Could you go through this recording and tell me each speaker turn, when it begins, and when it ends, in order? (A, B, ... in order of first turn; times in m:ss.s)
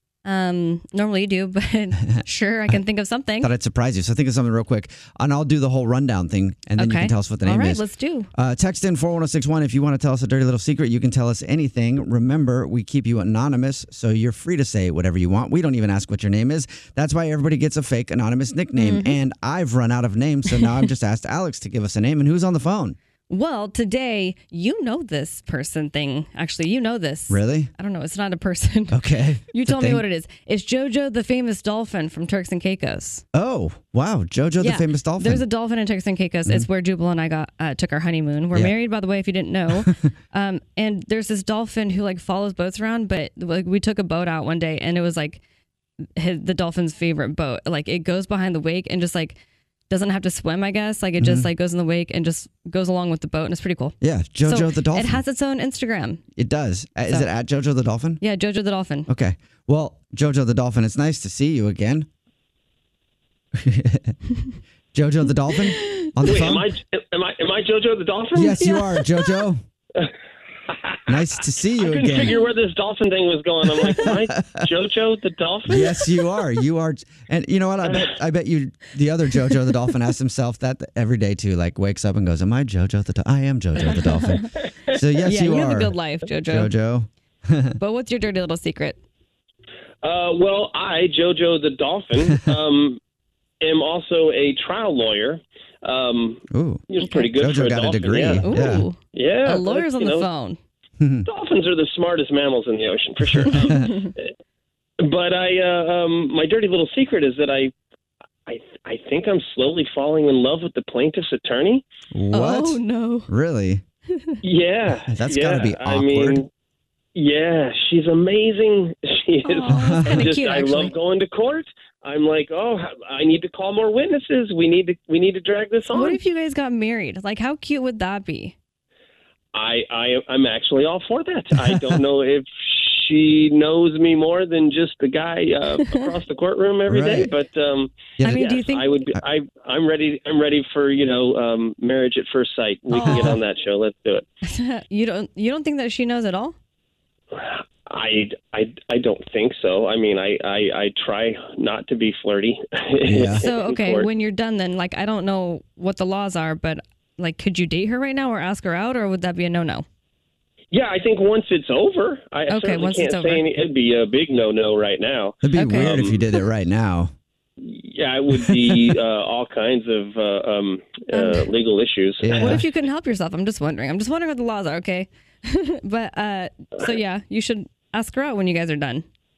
0:00.2-0:03.5 A
0:03.4-0:07.8 B
0:06.8-0:08.3 A
0:08.3-0:23.0 B
0:18.8-0:19.2 A
0:23.3-0:33.2 A
0:27.3-0:27.7 B
0:28.9-0:30.0 B
0:33.3-0:35.4 B
0:34.6-0:45.4 A
0:46.2-0:56.2 A
0:51.2-0:51.5 B
0:54.0-0:55.2 B
0:56.4-0:58.2 B
0:58.2-0:59.1 A
0:59.1-1:02.1 B
1:03.5-1:04.2 B
1:04.9-1:06.7 B
1:05.8-1:06.3 A
1:06.2-1:08.8 C
1:08.3-1:09.6 B
1:08.6-1:09.4 A
1:10.7-1:11.2 C
1:11.1-1:12.4 B
1:11.8-1:16.1 C
1:13.8-1:14.6 B
1:15.6-1:26.0 B
1:17.9-1:18.1 C
1:23.8-1:24.4 A
1:24.3-1:25.0 C
1:25.2-1:26.7 A
1:26.5-1:27.8 B
1:27.8-1:29.0 A
1:30.0-1:33.0 C
1:33.6-1:38.6 C
1:36.5-1:38.9 B
1:37.0-1:37.4 A
1:38.4-1:40.6 A
1:39.1-1:40.3 C
1:41.0-1:41.3 B
1:41.2-1:44.2 C
1:43.2-1:43.9 B
1:43.6-1:44.0 A
1:45.0-1:47.7 C
1:48.4-1:51.8 C
1:52.1-1:53.8 B
1:52.3-1:53.3 A
1:54.4-1:56.5 C
1:55.1-1:56.4 B
1:57.1-2:06.2 C
1:59.4-2:00.9 A
1:59.7-2:00.3 B
2:05.9-2:08.6 A
2:09.5-2:24.2 C
2:16.9-2:17.3 B
2:18.2-2:18.5 B
2:18.2-2:18.9 A
2:22.9-2:23.4 A
2:23.0-2:23.4 B
2:24.4-2:26.6 A
2:27.3-2:34.1 C
2:33.0-2:33.5 B
2:33.3-2:39.8 A
2:40.7-2:46.2 C
2:42.5-2:43.4 A
2:45.4-2:47.1 B
2:45.5-2:46.4 A
2:47.6-2:52.6 C
2:48.4-2:48.9 B
2:51.1-2:51.5 A
2:52.2-2:52.6 B
2:52.3-2:59.0 A